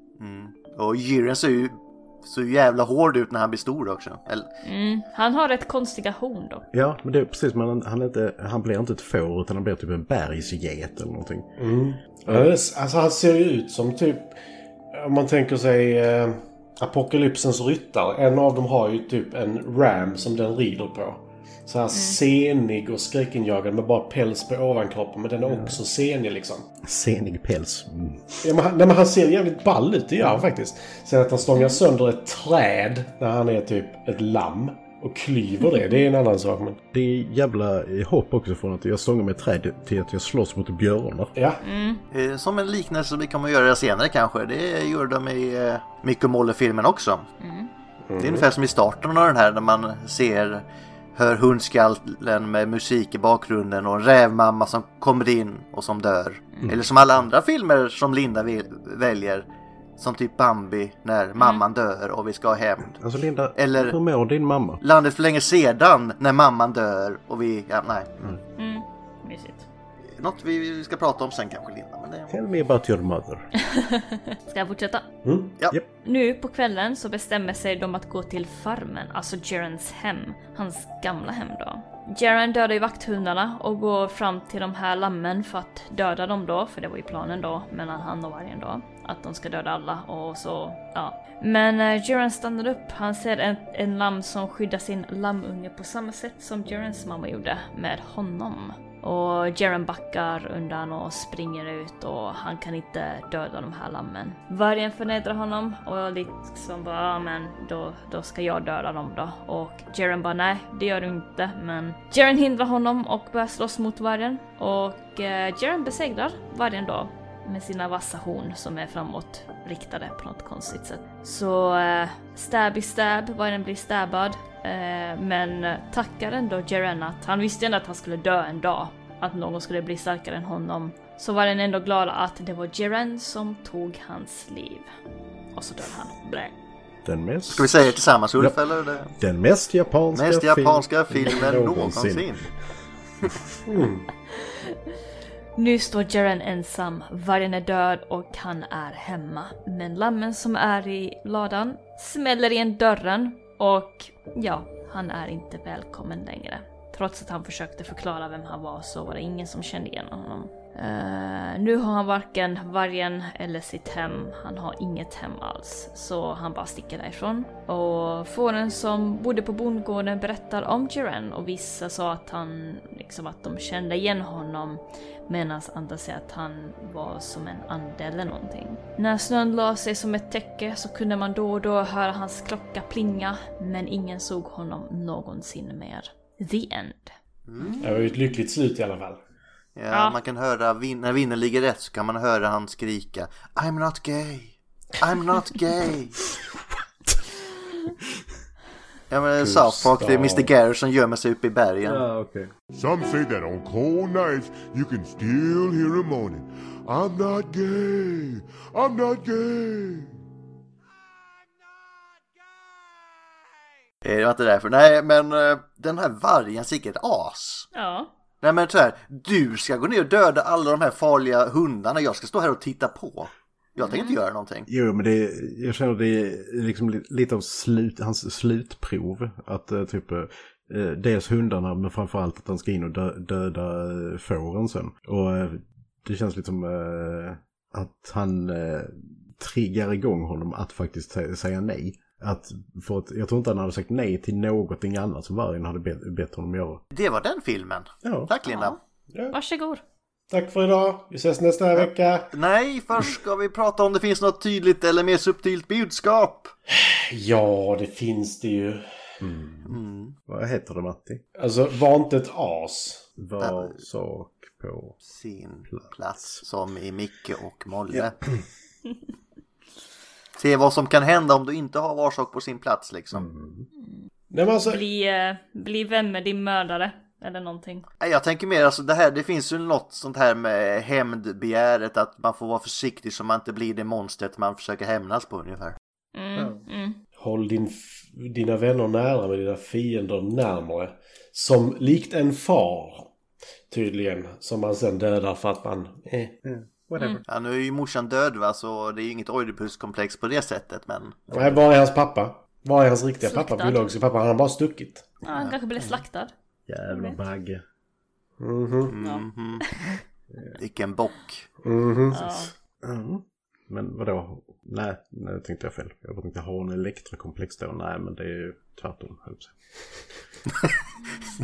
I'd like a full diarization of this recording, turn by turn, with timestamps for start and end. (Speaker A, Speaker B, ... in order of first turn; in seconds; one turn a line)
Speaker A: 0.2-4.5
Speaker B: 4.6-6.6
Speaker C: 6.7-11.5
Speaker D: 11.6-14.3
Speaker D: 14.9-26.7
Speaker B: 21.9-22.2
Speaker C: 25.5-25.8
Speaker C: 26.8-28.4
Speaker D: 28.4-36.8
Speaker C: 36.9-41.3
Speaker D: 41.4-41.6
Speaker B: 41.6-42.0
Speaker A: 42.1-47.2
Speaker B: 47.4-47.7
Speaker D: 48.1-48.5
Speaker A: 48.2-50.6
Speaker A: 51.1-59.5
Speaker A: 60.0-63.0
Speaker B: 61.4-61.6
Speaker C: 62.9-64.8
Speaker A: 63.5-64.0
Speaker A: 64.8-68.1
Speaker B: 68.6-69.7
Speaker A: 70.2-72.3
Speaker C: 72.3-73.5
Speaker B: 73.7-75.1
Speaker D: 75.2-75.5
Speaker B: 76.0-134.9
Speaker B: 135.5-136.5
Speaker C: 137.0-138.6
Speaker A: 137.5-139.1
Speaker C: 139.2-142.5
Speaker A: 140.1-142.4
Speaker D: 143.7-144.1
Speaker B: 144.3-144.8
Speaker B: 145.6-187.1
Speaker A: 187.5-187.9
Speaker D: 187.8-189.2
Speaker A: 189.8-196.2
Speaker B: 189.9-190.2
Speaker C: 196.5-197.2
Speaker A: 199.1-202.0
Speaker D: 199.4-200.5
Speaker C: 201.8-202.5
Speaker E: 202.8-210.0
Speaker A: 214.0-217.7
Speaker B: 217.7-218.1
Speaker A: 218.4-224.7
Speaker B: 223.8-224.2
Speaker C: 224.7-246.8
Speaker A: 246.9-248.8
Speaker C: 248.0-248.3
Speaker B: 248.4-248.8
Speaker B: 249.3-249.8
Speaker D: 250.3-252.3
Speaker A: 251.8-256.5
Speaker D: 256.7-258.9
Speaker C: 259.2-261.2
Speaker A: 259.7-260.1
Speaker D: 261.4-263.0
Speaker C: 263.2-265.0
Speaker A: 263.4-263.7
Speaker A: 265.0-268.1
Speaker C: 265.7-266.4
Speaker A: 270.4-273.2
Speaker C: 273.1-273.7
Speaker D: 274.3-274.8
Speaker B: 274.7-277.9
Speaker A: 278.0-285.8
Speaker B: 286.1-287.0
Speaker C: 286.4-286.6
Speaker D: 287.2-293.1
Speaker D: 293.7-296.4
Speaker C: 296.4-297.2
Speaker A: 297.3-301.5
Speaker D: 301.3-305.1
Speaker B: 303.2-303.8
Speaker B: 305.2-306.3
Speaker C: 306.7-307.6
Speaker B: 306.9-307.2
Speaker D: 308.4-308.9
Speaker A: 308.9-309.7
Speaker A: 310.5-311.5
Speaker D: 311.6-312.2
Speaker B: 312.1-312.5
Speaker C: 312.8-319.5